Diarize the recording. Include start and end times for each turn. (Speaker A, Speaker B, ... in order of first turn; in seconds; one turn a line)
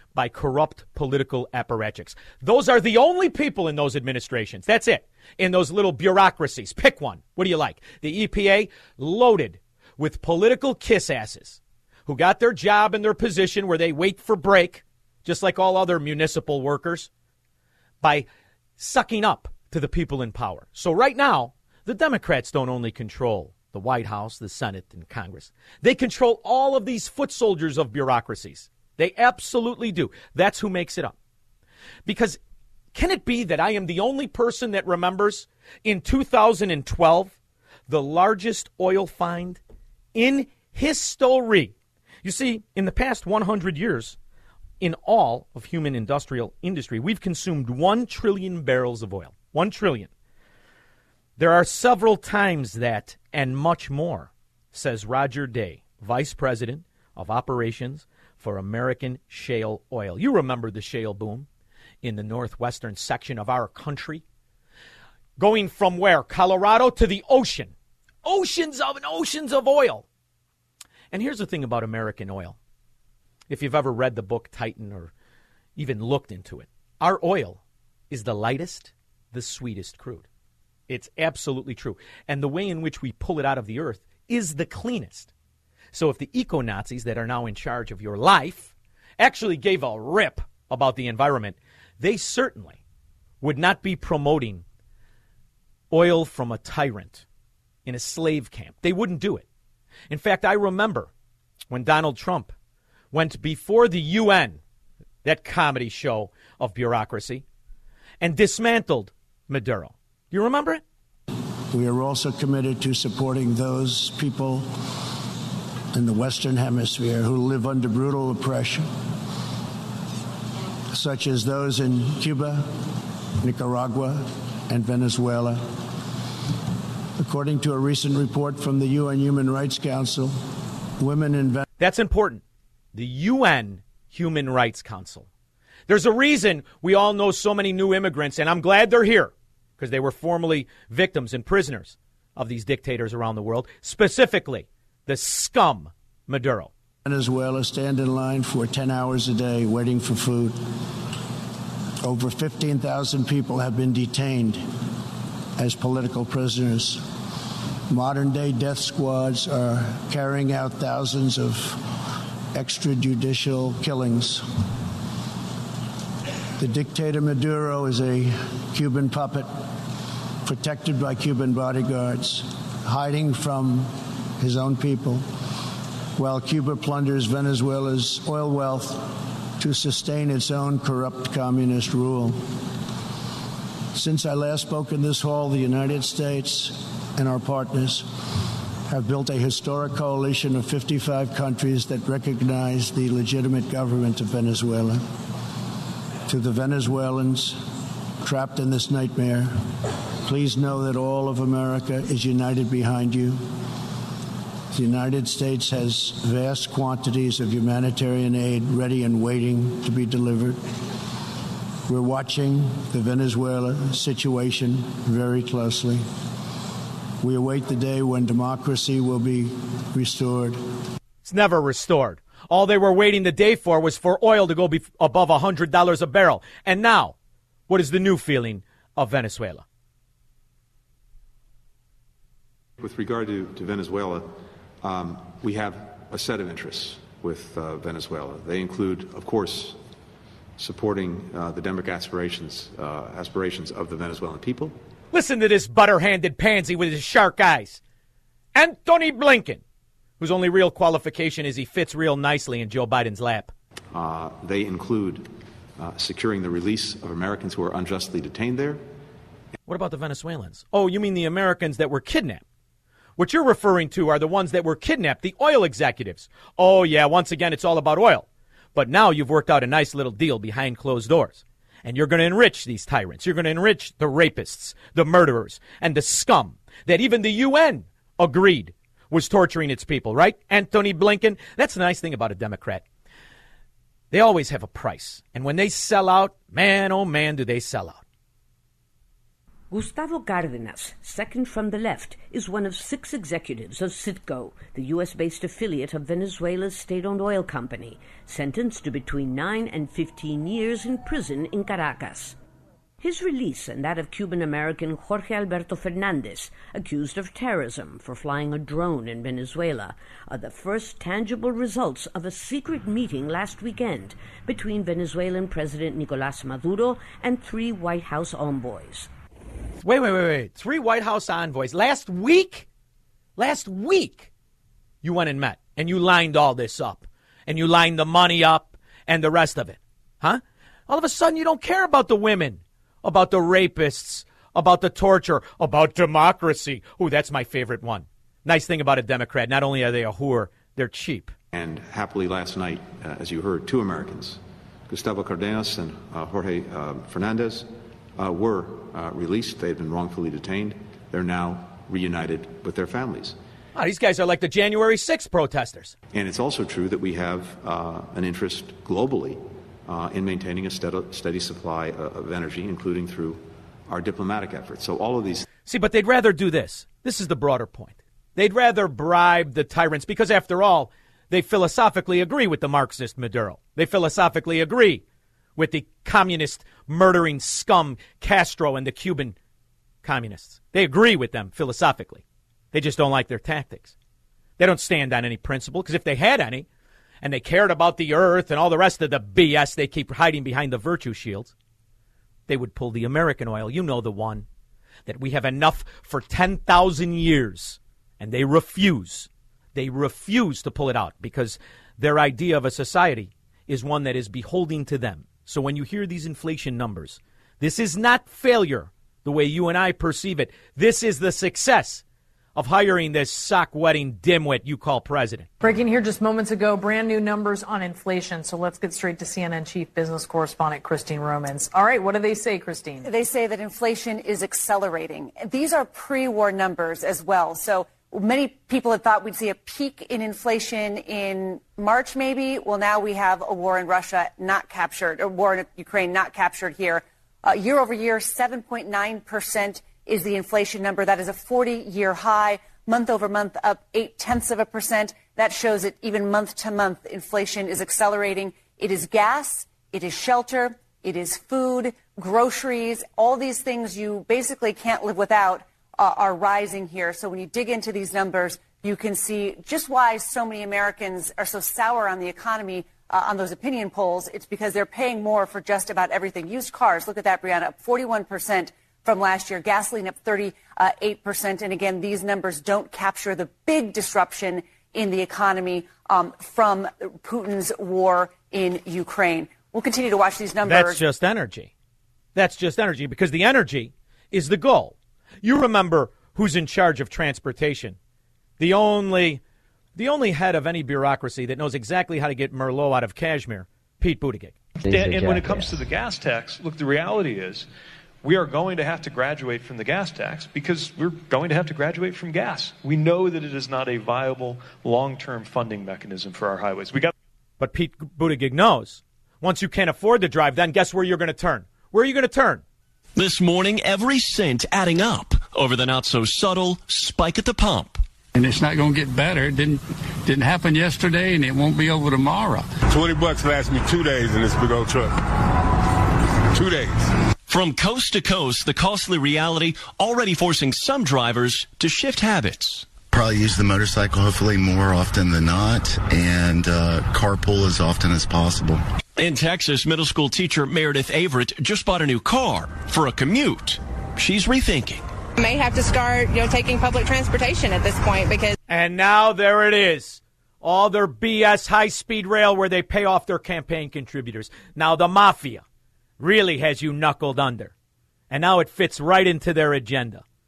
Speaker A: 0.1-17.1
Speaker A: 18.0-18.3
Speaker A: 18.8-31.1
Speaker A: 32.0-32.4
Speaker A: 32.9-37.4
Speaker A: 37.9-39.6
Speaker A: 40.1-44.2
Speaker A: 44.8-50.1
Speaker A: 51.4-61.5
Speaker A: 62.0-64.2
Speaker A: 65.4-67.7
Speaker A: 68.2-70.0
Speaker A: 71.1-72.6
Speaker A: 73.5-75.1
Speaker A: 75.8-80.3
Speaker A: 80.9-85.3
Speaker A: 85.9-92.8
Speaker A: 93.4-94.6
Speaker A: 95.9-97.2
Speaker A: 97.8-99.5
Speaker A: 100.1-101.1
Speaker A: 101.7-102.5
Speaker A: 103.1-104.6
Speaker A: 105.2-107.4
Speaker A: 108.2-110.8
Speaker B: 111.7-114.8
Speaker B: 115.9-118.9
Speaker B: 120.9-122.8
Speaker B: 123.4-125.8
Speaker B: 127.2-130.4
Speaker B: 131.0-131.6
Speaker A: 131.8-132.4
Speaker A: 132.9-135.3
Speaker A: 135.9-146.7
Speaker B: 147.0-150.7
Speaker B: 152.0-154.7
Speaker B: 155.6-157.0
Speaker B: 157.9-161.8
Speaker B: 162.5-164.5
Speaker B: 166.6-169.7
Speaker B: 170.4-175.2
Speaker B: 176.2-182.5
Speaker B: 183.9-188.1
Speaker B: 188.9-195.0
Speaker B: 196.3-197.6
Speaker B: 198.2-199.5
Speaker B: 200.2-203.4
Speaker B: 204.7-210.6
Speaker B: 211.9-216.0
Speaker B: 217.2-220.6
Speaker A: 221.2-227.1
Speaker A: 227.7-229.6
Speaker C: 232.8-239.8
Speaker C: 240.6-244.8
Speaker A: 245.1-247.8
Speaker A: 248.5-249.6
Speaker A: 250.2-253.5
Speaker C: 253.9-258.9
Speaker A: 259.7-262.4
Speaker A: 263.2-282.8
Speaker A: 284.1-288.0
Speaker D: 289.7-302.4
Speaker D: 303.0-319.1
Speaker A: 319.8-322.7
Speaker A: 323.4-324.3
Speaker A: 325.0-341.3
Speaker C: 341.5-353.4
Speaker A: 353.8-355.9
Speaker C: 356.1-365.4
Speaker A: 365.6-375.0
Speaker A: 375.6-379.4
Speaker A: 380.0-383.9
Speaker A: 384.6-386.7
Speaker A: 387.2-391.5
Speaker A: 392.5-394.5
Speaker A: 395.1-412.0
Speaker A: 412.6-415.5
Speaker E: 415.6-423.1
Speaker F: 423.0-481.0
Speaker A: 480.6-481.7
Speaker A: 482.3-488.0
Speaker A: 488.6-489.4
Speaker A: 489.9-494.6
Speaker G: 494.9-497.7
Speaker G: 498.2-507.1
Speaker A: 507.6-512.6
Speaker H: 513.1-518.0
Speaker I: 518.3-522.7
Speaker J: 523.0-525.1
Speaker J: 526.6-527.0
Speaker H: 527.5-532.9
Speaker K: 533.1-538.8
Speaker H: 539.2-545.0
Speaker L: 545.4-548.5
Speaker A: 548.7-555.6
Speaker A: 556.2-557.7
Speaker A: 558.3-560.2